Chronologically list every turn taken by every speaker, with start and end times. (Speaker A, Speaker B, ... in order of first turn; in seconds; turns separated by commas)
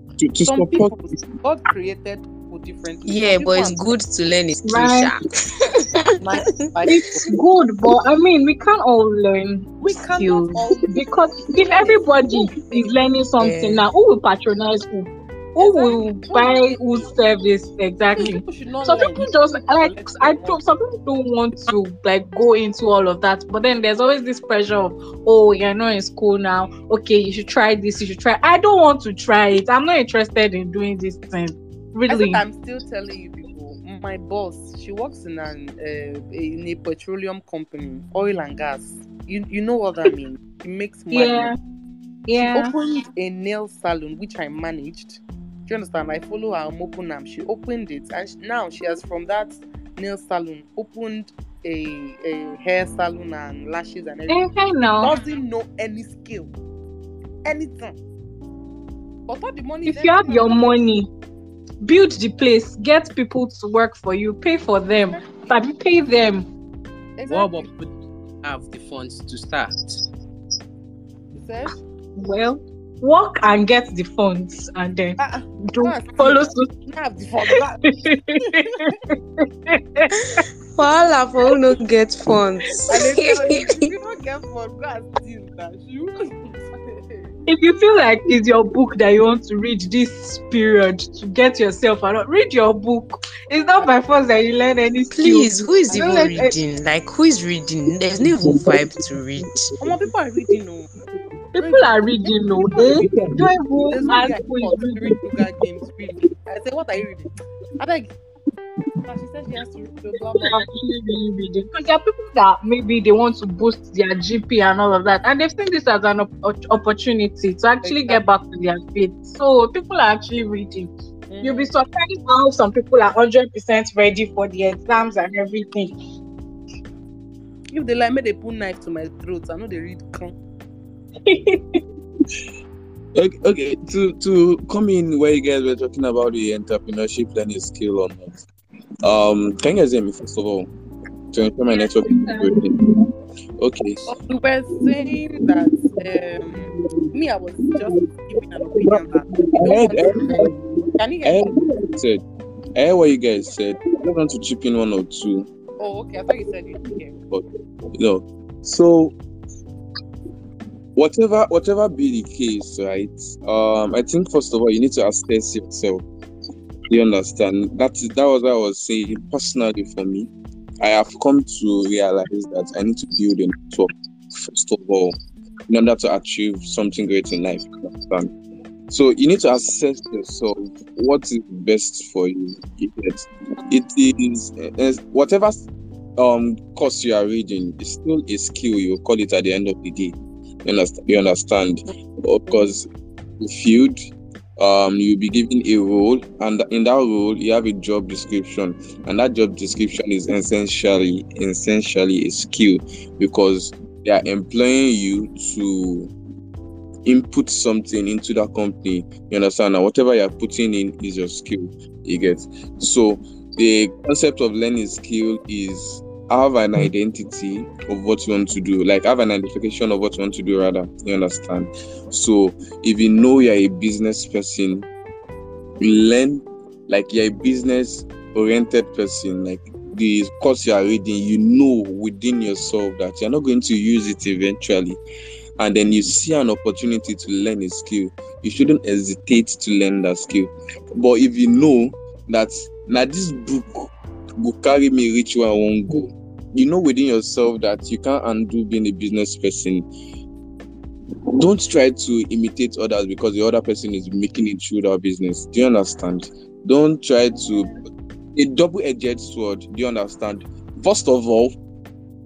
Speaker A: 0.2-0.9, Speaker B: 0.4-3.8, Speaker C: 3.0-6.9, Speaker D: 4.6-5.1, Speaker B: 6.2-7.4, Speaker D: 6.8-32.4, Speaker B: 9.8-13.0, Speaker C: 13.4-13.8, Speaker B: 15.6-17.1, Speaker B: 18.1-20.6, Speaker B: 32.1-41.5, Speaker D: 41.1-41.6, Speaker D: 42.3-42.8, Speaker B: 42.5-56.5, Speaker D: 54.3-55.2, Speaker B: 57.5-58.0, Speaker B: 59.3-60.7, Speaker D: 59.9-61.1, Speaker D: 61.8-66.5, Speaker B: 67.2-67.7, Speaker E: 67.3-70.0, Speaker B: 71.3-71.7, Speaker D: 72.2-76.7, Speaker B: 75.2-77.8, Speaker D: 77.5-80.4, Speaker B: 78.4-78.7, Speaker C: 80.8-83.9, Speaker B: 82.9-87.3, Speaker D: 87.5-96.6, Speaker C: 95.1-99.7, Speaker B: 95.9-96.3, Speaker A: 98.4-98.8, Speaker B: 99.8-100.9, Speaker D: 101.5-105.2, Speaker B: 101.6-107.3, Speaker B: 107.8-108.1, Speaker B: 109.1-110.6, Speaker D: 110.4-125.9, Speaker B: 117.8-118.2, Speaker B: 121.3-121.7, Speaker B: 127.7-130.3, Speaker D: 131.2-131.8, Speaker A: 133.1-138.4, Speaker A: 139.0-140.7, Speaker A: 141.3-143.0, Speaker D: 141.7-142.6, Speaker A: 143.6-144.1, Speaker B: 144.1-151.5, Speaker A: 146.6-147.1, Speaker A: 147.7-148.0, Speaker A: 148.7-152.2, Speaker A: 152.8-155.5, Speaker B: 155.8-157.2, Speaker A: 157.3-159.1, Speaker A: 160.9-166.0, Speaker A: 166.9-175.2, Speaker A: 175.7-178.3, Speaker A: 178.9-185.7, Speaker A: 186.2-192.9, Speaker A: 193.4-206.1, Speaker A: 207.0-224.9, Speaker A: 225.8-235.0, Speaker A: 235.6-249.8, Speaker A: 251.3-257.8, Speaker A: 258.3-261.5